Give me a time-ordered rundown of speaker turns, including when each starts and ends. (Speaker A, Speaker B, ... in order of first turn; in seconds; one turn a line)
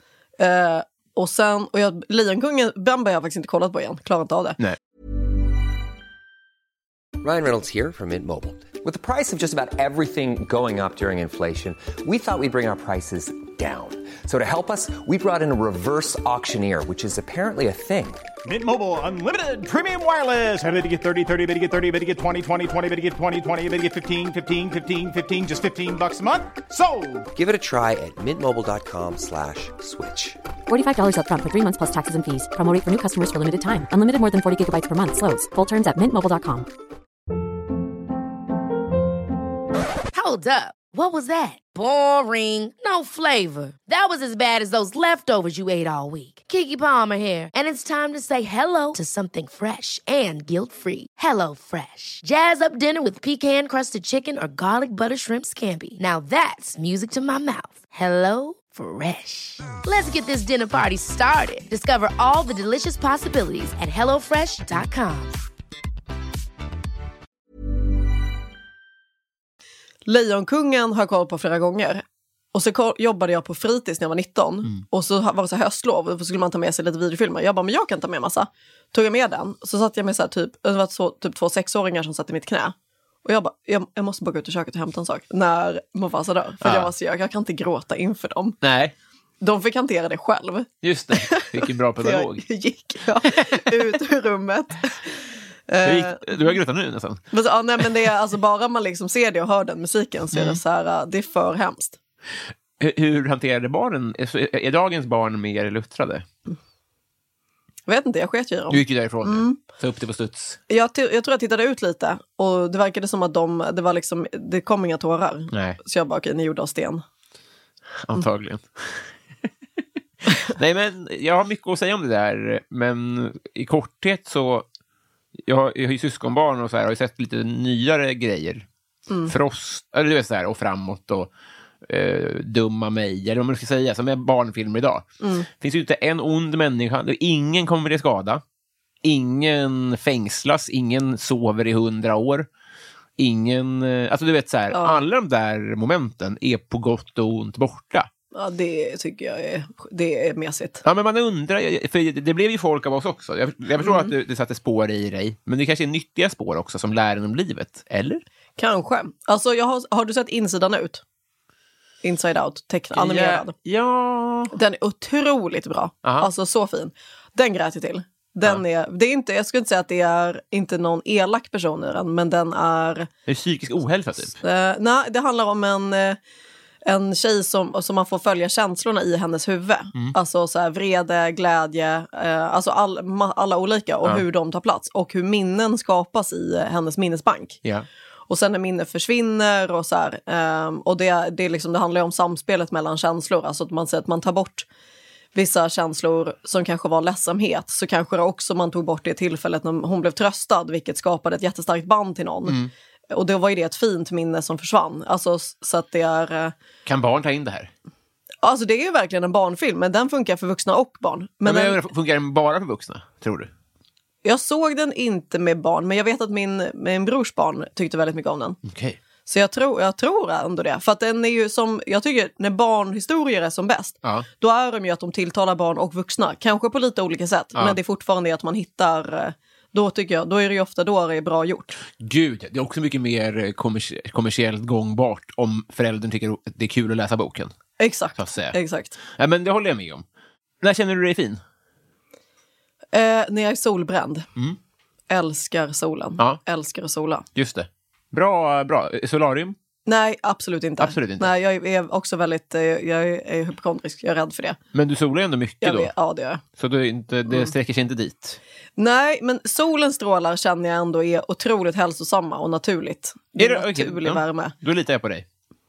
Speaker A: 0.4-4.6
Speaker B: 7.2-18.2
Speaker C: 18.4-27.3
Speaker B: 27.3-30.4
Speaker D: 30.7-36.7
Speaker E: 40.1-65.4
Speaker A: 70.1-88.6
Speaker F: 86.6-86.9
Speaker F: 88.6-88.9
Speaker A: 89.4-96.5
Speaker F: 90.8-92.4
Speaker F: 93.2-93.8
Speaker F: 95.8-97.2
Speaker A: 97.3-102.0
Speaker F: 100.3-100.6
Speaker F: 102.8-106.3
Speaker A: 107.9-109.6
Speaker F: 108.7-110.6
Speaker A: 110.7-117.0
Speaker F: 115.5-115.8
Speaker F: 118.0-119.0
Speaker F: 120.3-124.7
Speaker F: 125.5-128.7
Speaker F: 129.3-131.3
Speaker F: 131.8-138.4
Speaker A: 135.2-135.5
Speaker F: 139.0-142.5
Speaker F: 143.2-148.1
Speaker A: 144.7-145.0
Speaker A: 148.3-150.8
Speaker F: 150.8-158.2
Speaker A: 153.8-154.1
Speaker A: 158.6-161.0
Speaker A: 162.0-163.5
Speaker F: 162.9-164.5
Speaker A: 164.5-173.1
Speaker F: 173.3-174.4
Speaker A: 174.4-176.2
Speaker A: 176.8-187.6
Speaker A: 188.3-194.7
Speaker A: 195.3-202.6
Speaker F: 202.5-202.7
Speaker A: 203.1-206.5
Speaker F: 206.8-207.7
Speaker A: 208.4-211.8
Speaker F: 211.4-213.5
Speaker A: 214.2-218.6
Speaker F: 218.6-219.0
Speaker A: 219.3-231.8
Speaker F: 232.0-237.5
Speaker A: 237.8-239.0
Speaker F: 238.2-238.6
Speaker F: 239.1-240.1
Speaker F: 240.6-241.4
Speaker A: 242.9-244.3
Speaker A: 245.1-247.3
Speaker F: 247.3-249.6
Speaker A: 249.9-254.6
Speaker F: 250.8-251.3
Speaker F: 254.7-255.9
Speaker A: 255.6-256.4
Speaker F: 256.6-258.4
Speaker A: 258.8-264.5
Speaker F: 263.4-265.3